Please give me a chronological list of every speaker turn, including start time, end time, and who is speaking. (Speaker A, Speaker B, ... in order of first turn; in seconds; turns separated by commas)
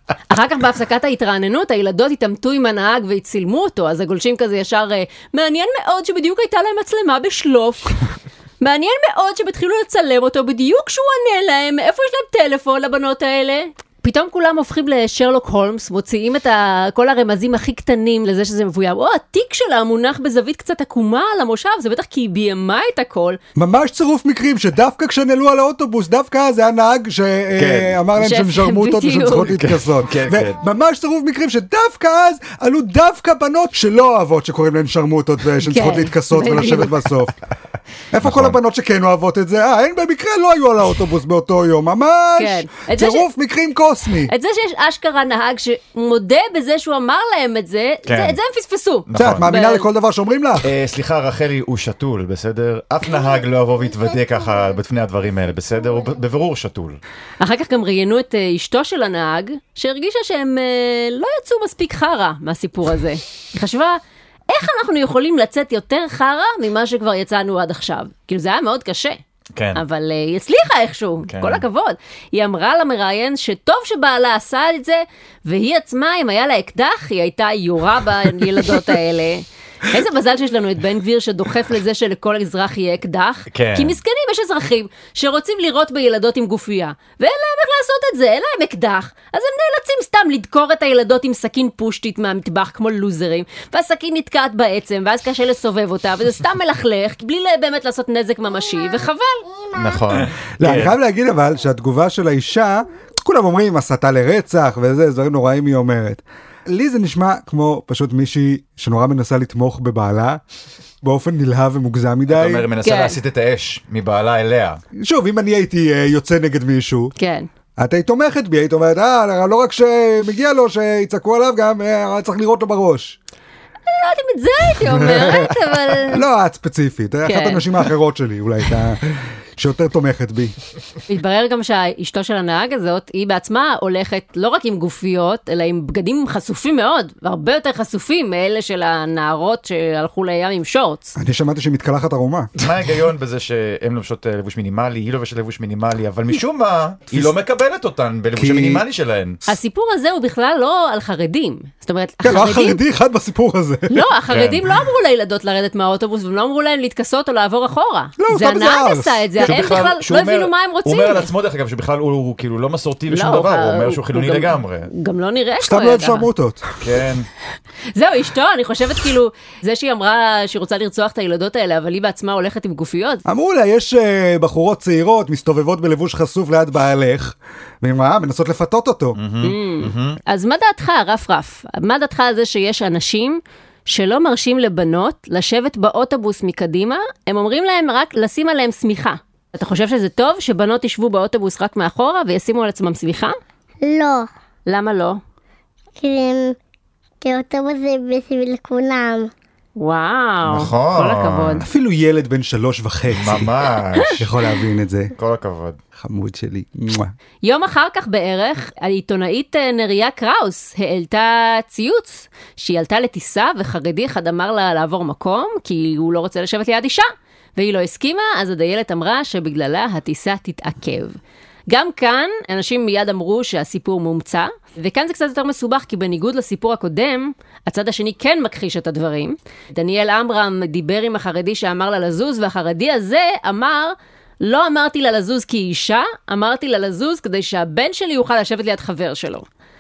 Speaker A: 0.3-8.0, Speaker A: 8.6-23.4, Speaker B: 23.6-37.4, Speaker C: 27.6-28.0, Speaker A: 28.2-29.6, Speaker C: 29.5-30.6, Speaker A: 35.6-37.0, Speaker B: 38.1-44.3, Speaker C: 38.2-38.6, Speaker A: 42.4-43.3, Speaker A: 44.3-49.9, Speaker C: 48.1-48.4, Speaker C: 49.1-49.5, Speaker B: 49.2-50.7, Speaker C: 50.6-57.0, Speaker A: 57.4-69.2, Speaker C: 69.5-69.8, Speaker A: 69.8-99.5, Speaker C: 71.3-71.6, Speaker C: 83.5-84.0, Speaker D: 99.5-100.2, Speaker C: 99.7-101.0, Speaker B: 100.6-110.4, Speaker B: 111.0-112.7, Speaker C: 112.3-114.8, Speaker A: 112.8-113.2, Speaker B: 115.0-117.1, Speaker A: 117.2-117.5, Speaker B: 117.8-123.2, Speaker A: 123.8-126.2, Speaker B: 124.9-130.5, Speaker A: 127.2-127.6, Speaker A: 131.1-141.2, Speaker B: 141.2-142.5, Speaker C: 142.6-149.4, Speaker B: 148.4-148.8, Speaker A: 149.5-152.8, Speaker B: 152.2-154.1, Speaker A: 153.9-161.3, Speaker C: 154.3-154.8, Speaker B: 158.2-159.6, Speaker C: 159.4-164.9, Speaker A: 163.1-166.3, Speaker B: 165.6-166.7, Speaker C: 166.8-167.3, Speaker A: 167.9-173.2, Speaker B: 173.3-179.2, Speaker C: 179.2-180.2, Speaker A: 179.4-193.4, Speaker D: 193.8-194.3, Speaker A: 194.7-195.2, Speaker D: 196.0-196.6, Speaker D: 197.2-199.3, Speaker A: 199.8-201.7, Speaker C: 200.5-201.7, Speaker B: 201.7-203.5, Speaker C: 203.1-204.3, Speaker B: 204.2-205.1, Speaker C: 205.2-205.8, Speaker B: 206.0-207.1, Speaker A: 207.4-221.2, Speaker A: 221.7-239.5